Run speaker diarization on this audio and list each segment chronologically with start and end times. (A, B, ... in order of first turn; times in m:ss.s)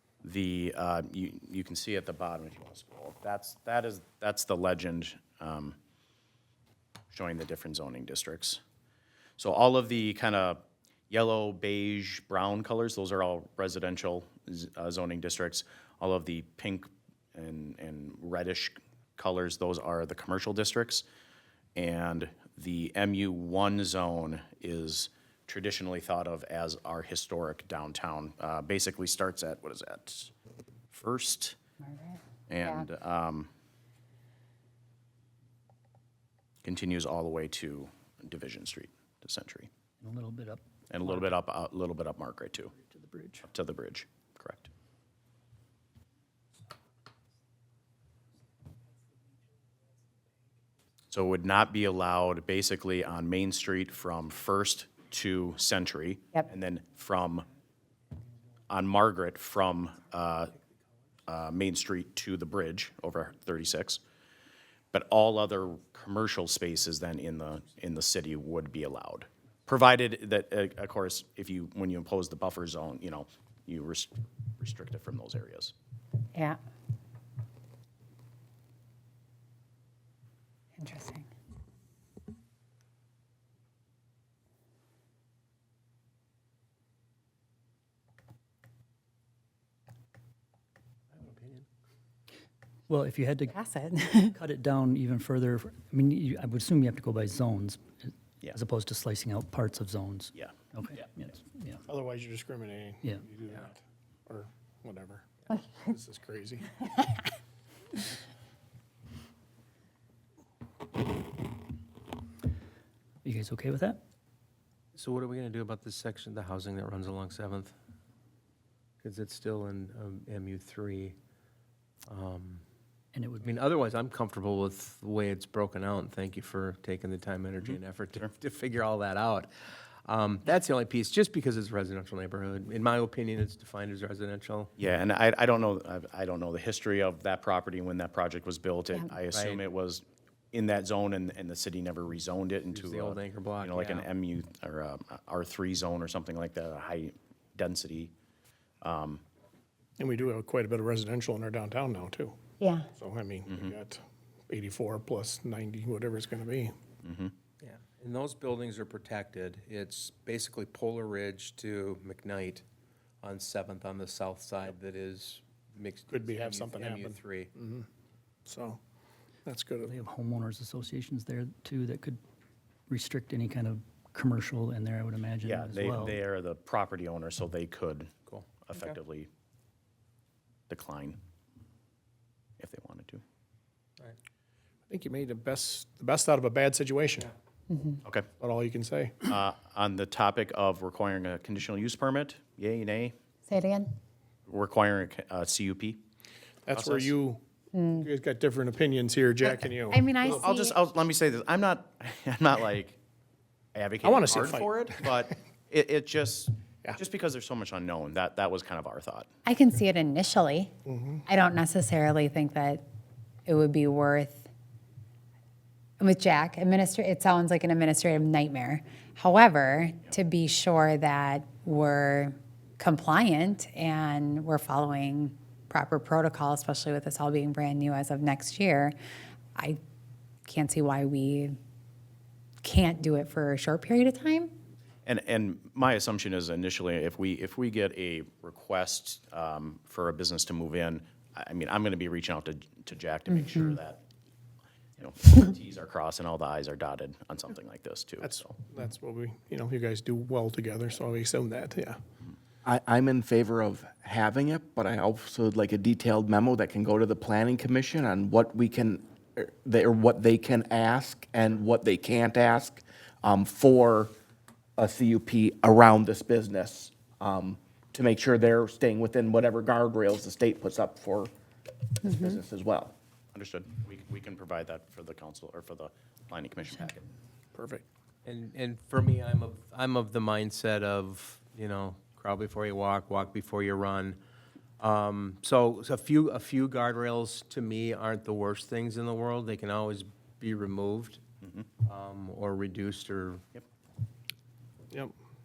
0:00.2-0:05.8 A
0:07.1-0:08.6 A
0:09.4-0:21.0 A
0:21.8-0:30.3 A
0:30.9-0:31.6 A
0:31.8-0:32.8 B
0:32.5-0:33.5 A
0:36.6-0:39.7 A
0:40.0-0:41.3 C
0:40.9-0:42.7 A
0:42.7-0:43.4 C
0:43.4-0:44.7 A
0:51.1-0:57.4 A
0:58.7-1:00.5 A
1:01.3-1:04.0 A
1:04.9-1:15.7 A
1:20.8-1:21.3 B
1:31.1-1:31.6 D
1:32.9-1:33.6 C
1:33.5-1:34.3 B
1:34.3-1:41.8 C
1:41.9-1:45.3 E
1:45.8-1:46.8 E
1:53.2-1:54.0 C
1:54.9-1:57.7 D
1:59.0-2:01.2 D
2:02.1-2:02.6 D
2:03.1-2:03.6 C
2:03.4-2:09.5 D
2:07.6-2:08.3 A
2:10.0-2:14.7 D
2:14.8-2:28.1 A
2:19.3-2:19.6 D
2:22.7-2:24.1 D
2:28.8-2:29.2 A
2:30.0-2:32.4 E
2:32.6-2:32.9 B
2:32.9-2:36.7 E
2:37.0-2:37.3 A
2:37.6-2:42.6 D
2:43.2-2:47.5 D
2:46.1-2:47.9 E
2:48.4-2:48.8 E
2:49.4-2:50.0 E
2:49.9-2:52.2 C
2:52.9-2:56.2 C
2:55.4-2:58.1 A
2:58.3-2:59.0 D
2:58.6-2:59.3 A
3:00.7-3:01.2 A
3:02.6-3:03.2 A
3:04.9-3:07.3 E
3:07.7-3:08.0 B
3:08.4-3:09.1 E
3:09.2-3:13.1 A
3:13.5-3:13.9 B
3:14.5-3:16.0 A
3:16.6-3:17.4 E
3:16.7-3:17.1 A
3:17.7-3:18.1 B
3:18.0-3:20.4 E
3:19.4-3:20.8 B
3:20.2-3:23.0 A
3:23.7-3:29.3 A
3:24.0-3:25.3 E
3:29.4-3:30.7 B
3:30.8-3:31.2 E
3:31.3-3:32.8 B
3:33.5-3:34.5 B
3:36.0-3:48.9 B
3:50.5-3:51.6 B
3:52.6-3:54.5 B
3:55.0-4:04.0 A
4:03.3-4:03.7 B
4:05.0-4:08.6 A
4:08.2-4:12.0 E
4:12.6-4:24.1 F
4:24.8-4:31.3 F
4:32.0-4:32.9 F
4:33.3-4:37.1 A
4:37.5-4:37.8 E
4:38.2-4:44.2 D
4:44.8-4:51.2 D
4:51.8-4:53.4 D